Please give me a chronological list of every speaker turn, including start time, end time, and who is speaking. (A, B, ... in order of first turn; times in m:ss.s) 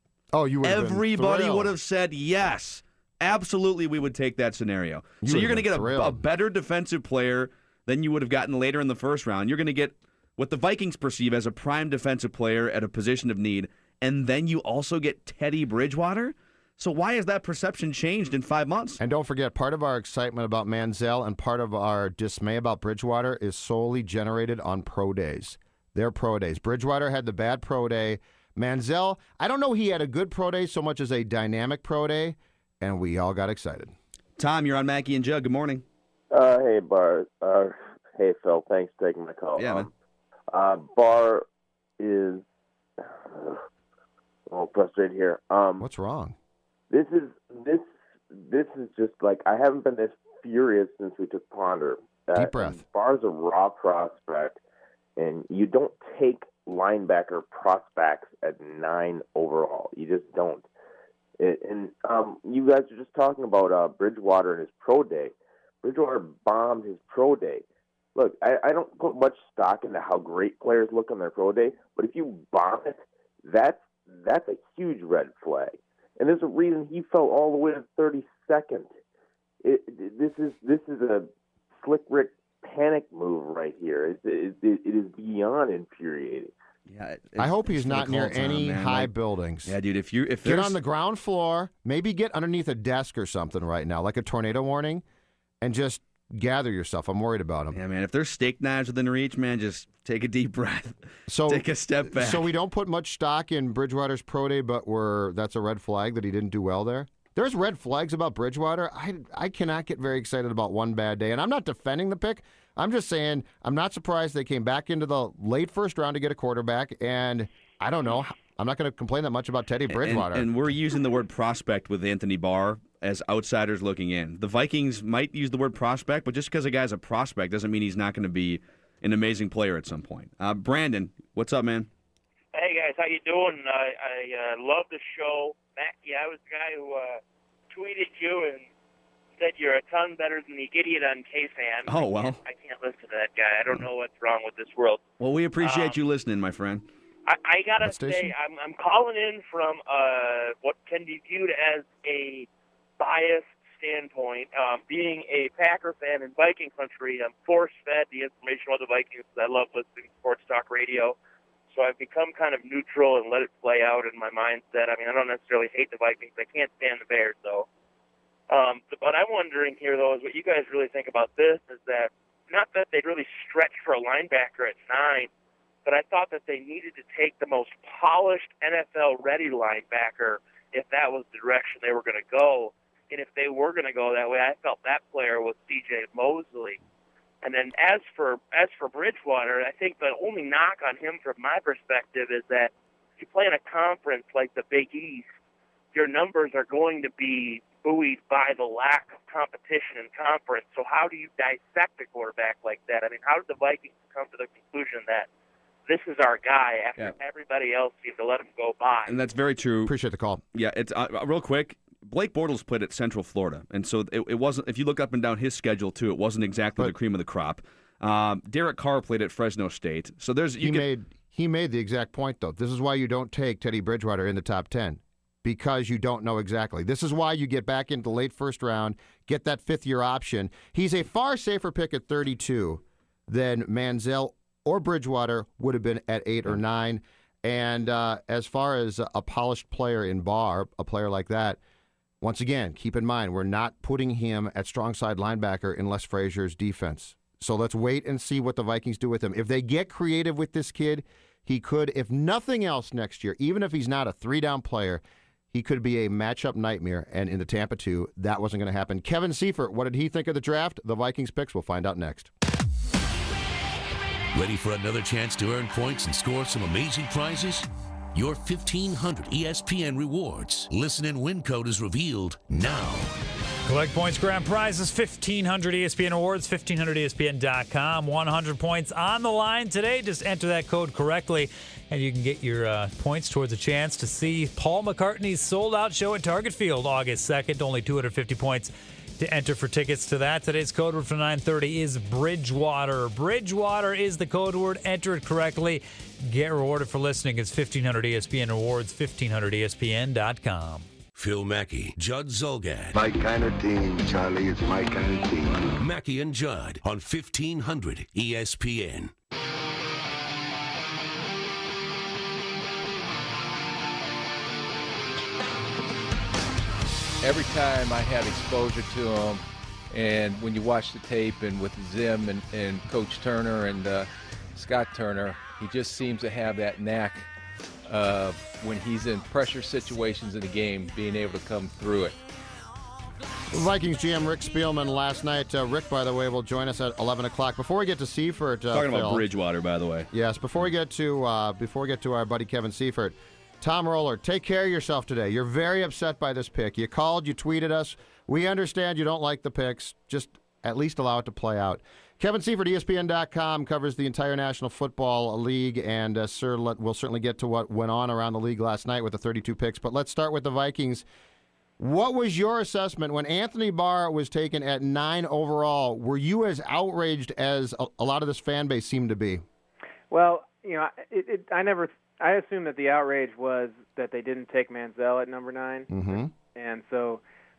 0:00.3-0:01.7 A
0:00.6-0:19.0 B
0:05.2-0:06.2 A
0:19.0-0:33.9 A
0:34.4-0:35.8 B
0:36.3-0:39.9 C
0:39.6-0:39.9 B
0:40.5-0:41.4 C
0:42.0-0:42.4 C
0:43.0-0:43.6 C
0:44.5-0:45.9 C
0:45.8-0:46.4 A
0:46.9-0:54.6 C
0:52.4-0:52.8 A
0:55.2-1:00.6 C
1:01.4-1:07.6 C
1:08.1-1:18.9 C
1:19.6-1:26.5 C
1:26.9-1:29.1 B
1:27.4-1:29.7 A
1:29.6-1:30.8 B
1:30.4-1:35.0 A
1:35.6-1:37.8 A
1:37.7-1:42.5 B
1:41.3-2:00.5 A
1:59.9-2:11.9 B
2:12.5-2:18.6 D
2:19.4-2:25.0 D
2:21.9-2:22.4 B
2:25.2-2:26.8 B
2:25.6-2:26.0 D
2:27.2-2:32.5 D
2:27.8-2:28.3 A
2:33.0-2:41.1 D
2:41.7-2:47.6 D
2:48.5-2:55.3 D
2:55.8-3:06.8 D
3:07.4-3:15.3 D
3:15.9-3:25.3 D
3:25.9-3:29.2 D
3:29.1-3:29.9 B
3:29.8-3:30.4 A
3:30.5-3:40.9 B
3:40.6-4:01.6 A
4:02.2-4:22.3 A
4:24.3-4:33.1 E
4:33.6-5:00.9 F
5:01.1-5:03.0 E
5:02.9-5:05.8 G
5:05.8-5:09.1 E
5:17.2-5:27.3 H
5:27.9-5:32.2 H
5:33.5-5:39.2 A
5:38.7-5:40.1 B
5:40.1-6:01.1 A
6:01.8-6:09.4 A
6:10.1-6:17.2 I
6:15.9-6:16.3 A